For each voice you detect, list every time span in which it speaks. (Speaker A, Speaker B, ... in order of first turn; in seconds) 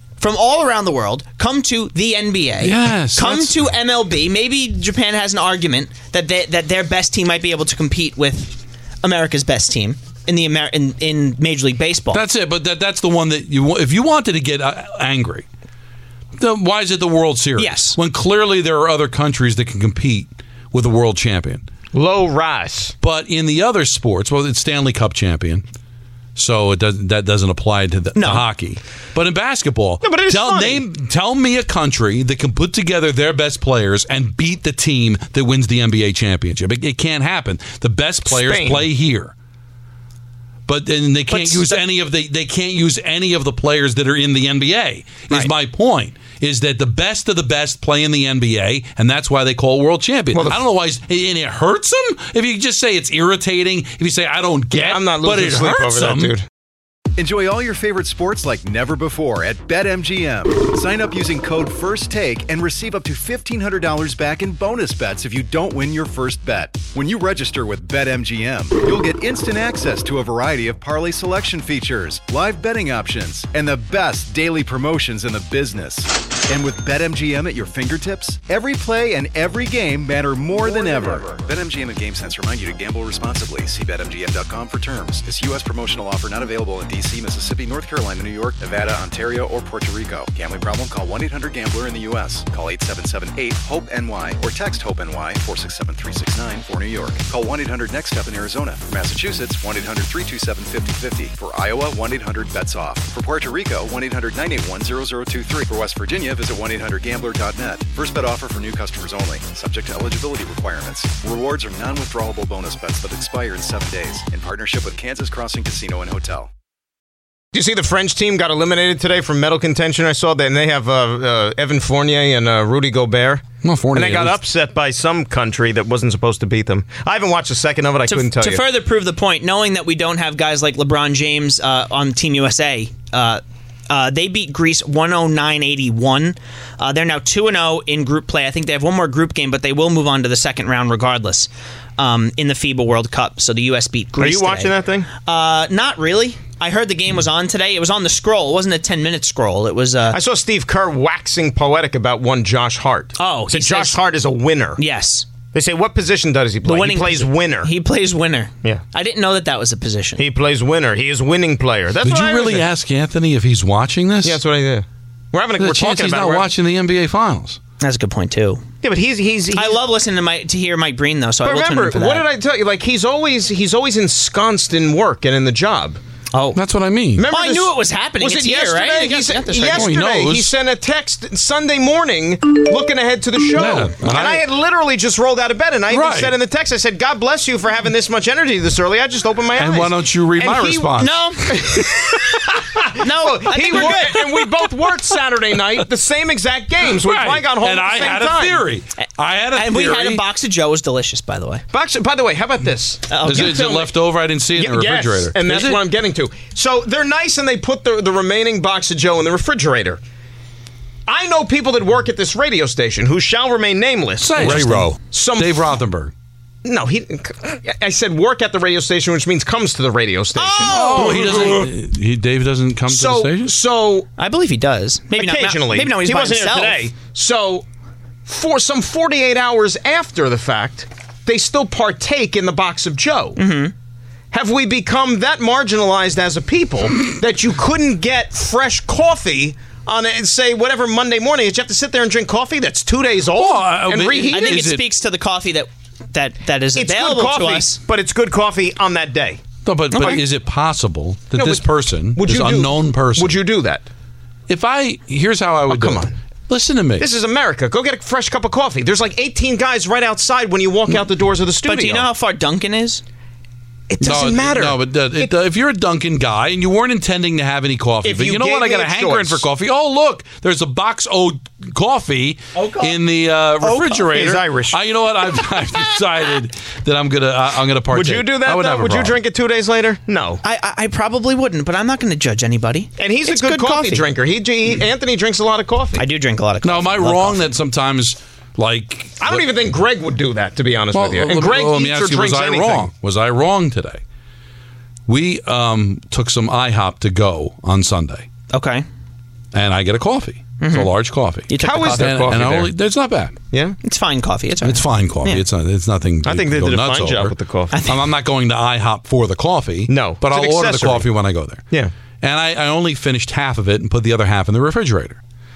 Speaker A: 0.2-12.2, 17.6-18.0, 28.1-28.4, 41.3-41.8, 128.1-150.2, 153.2-154.0, 154.8-155.3, 156.6-160.2, 167.8-168.6, 169.5-172.2, 176.3-176.6, 177.3-179.9, 191.0-191.5, 193.0-194.2, 199.5-201.6, 203.1-203.6, 214.4-214.8, 220.3-221.6, 224.2-226.8, 233.3-233.7, 244.3-247.8, 249.9-250.2, 261.6-263.0, 272.5-273.0, 280.4-284.1, 286.0-287.4, 298.5-298.8, 300.6-300.9, 301.5-302.2, 303.8-305.4, 307.7-308.0
Speaker B: 2.6-3.5, 12.1-15.4, 16.4-21.6, 23.0-25.6, 26.4-39.3, 40.7-56.3, 123.6-124.4, 162.0-164.4, 165.6-167.6, 176.5-177.2, 179.7-180.5, 183.5-184.4, 185.9-186.3, 189.6-192.4, 193.7-194.5, 196.9-200.2, 203.2-205.8, 214.2-216.1, 220.7-223.5, 243.3-244.8, 249.6-253.4, 254.5-257.1, 264.0-279.2, 286.6-289.4, 290.9-294.0, 295.1-298.2, 299.5-303.3, 304.6-307.3, 307.9-311.6, 312.2-315.2
Speaker C: 21.9-22.9, 30.0-30.8, 38.3-38.9, 50.3-50.6, 54.7-56.4, 80.9-81.2, 117.5-128.6, 144.2-145.1, 150.1-154.8, 155.5-157.7, 160.2-162.7, 164.2-166.5, 168.8-169.8, 171.4-176.0, 177.2-190.9, 191.5-198.6, 201.7-203.9, 204.5-210.0, 211.1-215.8, 216.6-221.7, 222.9-224.1, 225.2-227.6, 228.2-233.4, 234.3-244.6, 246.7-249.4, 251.3-253.8, 255.7-256.1, 257.0-262.1, 263.9-265.3, 268.0-269.4, 274.1-274.8, 277.9-280.4, 283.0-286.0, 289.2-292.9, 301.6-302.7, 303.5-303.8, 306.2-307.8, 309.9-311.1
Speaker D: 57.2-116.5